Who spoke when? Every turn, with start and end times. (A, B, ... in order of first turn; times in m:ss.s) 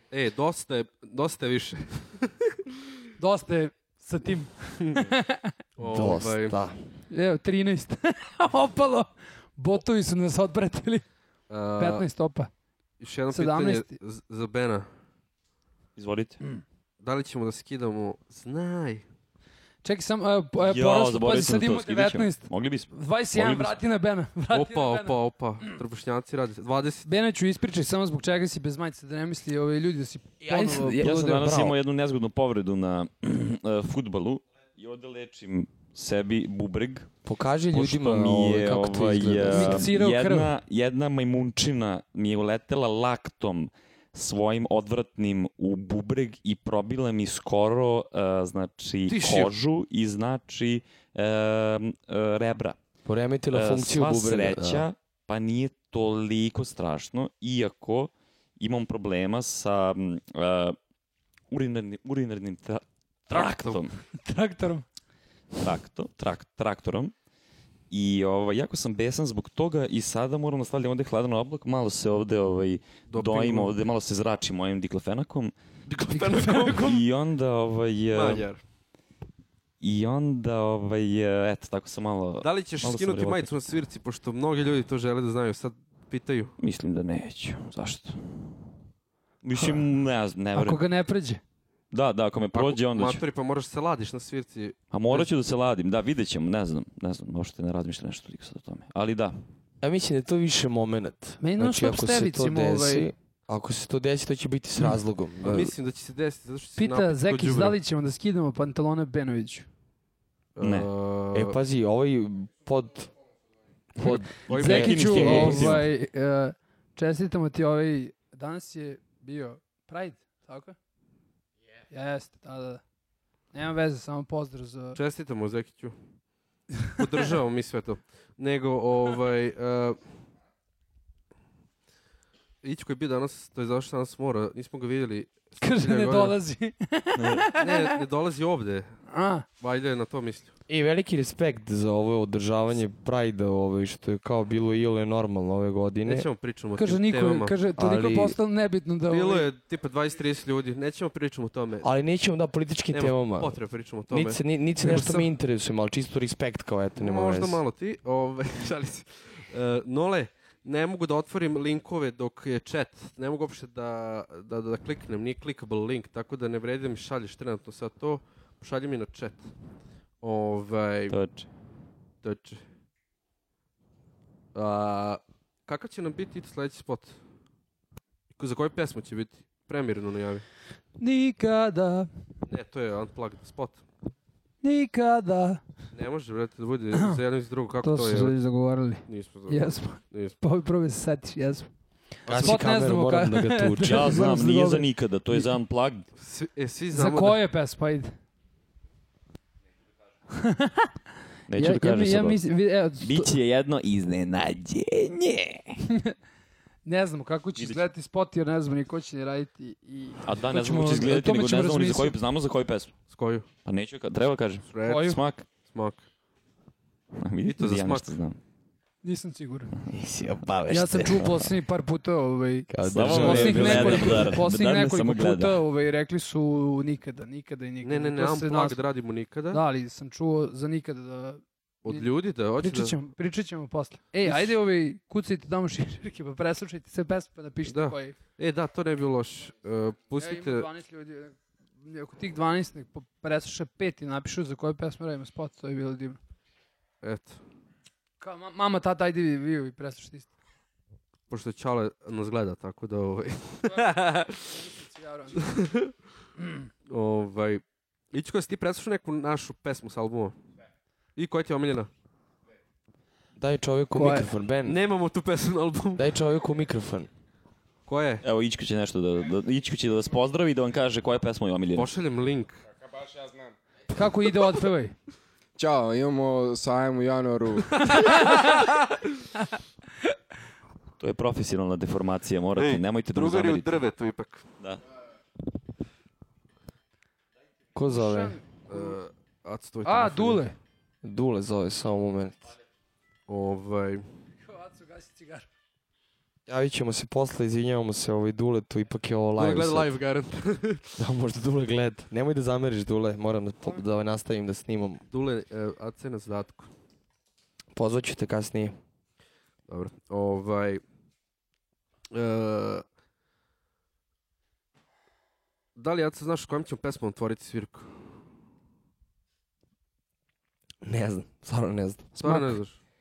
0:00.1-0:02.6 A
0:03.2-0:05.5 B
0:05.8-0:06.6 A
0:05.8-0:06.8 C
0:07.1-0:11.1 B
0:11.5-0:12.0 A
0:11.8-0:12.5 B
0:13.0-0:14.9 A
0:13.3-0:13.9 B
0:16.0-0:16.4 D
0:17.0-0:19.0 A
0:19.8-0:25.7 B
0:20.6-0:23.8 D
0:24.5-0:27.1 A
0:27.0-0:31.2 B
0:30.4-0:31.8 C
0:31.0-0:37.1 D
0:37.2-0:39.9 C
0:37.7-0:52.8 D
0:39.5-0:40.5 B
0:49.1-0:49.5 A
0:53.0-0:54.9 C
0:53.5-1:00.8 D
1:01.5-1:03.9 D
1:03.3-1:03.9 A
1:04.2-1:04.8 B
1:05.6-1:07.1 D
1:07.9-1:15.5 D
1:13.1-1:13.7 A
1:15.9-1:17.1 A
1:16.1-1:16.7 B
1:16.3-1:18.5 D
1:18.1-1:18.6 A
1:19.8-1:23.6 D
1:22.4-1:26.6 A
1:26.6-1:28.6 D
1:29.4-1:30.8 D
1:30.6-1:31.4 B
1:31.9-1:33.2 D
1:32.5-1:35.3 A
1:34.9-1:39.4 D
1:39.8-1:45.7 C
1:41.4-1:43.1 B
1:45.4-1:47.8 A
1:46.8-1:49.7 B
1:50.6-1:51.6 A
1:50.6-1:50.9 D
1:51.3-1:53.1 C
1:54.0-1:55.8 C
1:54.4-2:00.8 B
1:54.5-1:55.7 A
1:54.5-1:55.8 D
2:01.9-2:02.8 B
2:03.5-2:05.0 B
2:05.0-2:06.0 A
2:07.0-2:10.0 A
2:12.6-2:16.4 A
2:15.6-2:18.0 B
2:17.2-2:17.5 D
2:17.6-2:19.0 A
2:19.1-2:19.4 B
2:19.6-2:20.5 A
2:20.7-2:26.3 C
2:26.1-2:27.6 A
2:26.8-2:29.5 B
2:27.8-2:28.4 C
2:29.1-2:31.9 A
2:31.8-2:33.6 C
2:32.9-2:35.3 A
2:34.1-2:37.6 C
2:37.0-2:49.5 A
2:50.2-2:51.2 A
2:51.1-2:51.5 D
2:52.2-2:52.6 A
2:54.5-2:57.2 A
2:58.3-3:00.5 A
3:01.0-3:02.1 B
3:02.5-3:03.8 A
3:04.6-3:05.6 B
3:05.9-3:08.4 A
3:07.8-3:11.7 B
3:09.1-3:10.4 A
3:12.3-3:12.6 A
3:12.3-3:14.3 C
3:12.3-3:15.5 B
3:13.8-3:16.1 D
3:16.2-3:17.4 A
3:16.9-3:18.2 B
3:20.3-3:20.9 B
3:21.5-3:22.4 D
3:21.6-3:23.4 B
3:23.0-3:25.8 D
3:26.9-3:32.2 B
3:27.6-3:27.8 D
3:30.2-3:32.9 D
3:33.1-3:33.5 A
3:33.6-3:35.4 D
3:34.7-3:36.0 A
3:34.8-3:35.2 B
3:37.2-3:38.4 D
3:37.4-3:38.2 A
3:39.0-3:39.7 B
3:39.9-3:41.4 C
3:40.7-3:48.8 B
3:42.7-3:44.4 C
3:42.9-3:45.6 D
3:47.8-3:49.6 A
3:49.5-3:52.1 B
3:51.8-3:53.0 A
3:52.6-3:58.2 B
3:54.2-3:54.5 A
3:57.6-4:00.7 A
4:00.2-4:06.2 B
4:07.0-4:07.4 A
4:08.2-4:10.3 B
4:11.3-4:14.5 A
4:13.6-4:15.6 B
4:15.4-4:15.9 A
4:16.4-4:16.7 B
4:16.9-4:20.4 A
4:21.2-4:21.9 A
4:23.4-4:24.8 C
4:24.0-4:24.3 B
4:24.6-4:26.1 A
4:26.0-4:27.1 C
4:27.9-4:28.2 A
4:28.2-4:31.9 D
4:31.7-4:32.6 A
4:32.7-4:33.6 E
4:33.9-4:35.0 B
4:35.6-4:38.0 E
4:37.8-4:39.0 A
4:37.9-4:38.6 B
4:41.0-4:43.8 D
4:42.6-4:44.4 A
4:47.8-4:48.4 C
4:47.9-4:48.8 B
4:48.7-4:50.5 A
4:49.8-4:50.6 B
4:51.0-4:52.5 C
4:53.3-4:54.0 A
4:54.4-4:55.5 B
4:56.5-4:59.9 C
4:59.4-5:01.0 A
5:01.0-5:05.0 C
5:05.1-5:06.7 A
5:07.7-5:08.8 C
5:09.7-5:10.8 A
5:12.1-5:12.8 A
5:15.8-5:18.0 A
5:20.8-5:22.2 C
5:22.2-5:22.8 A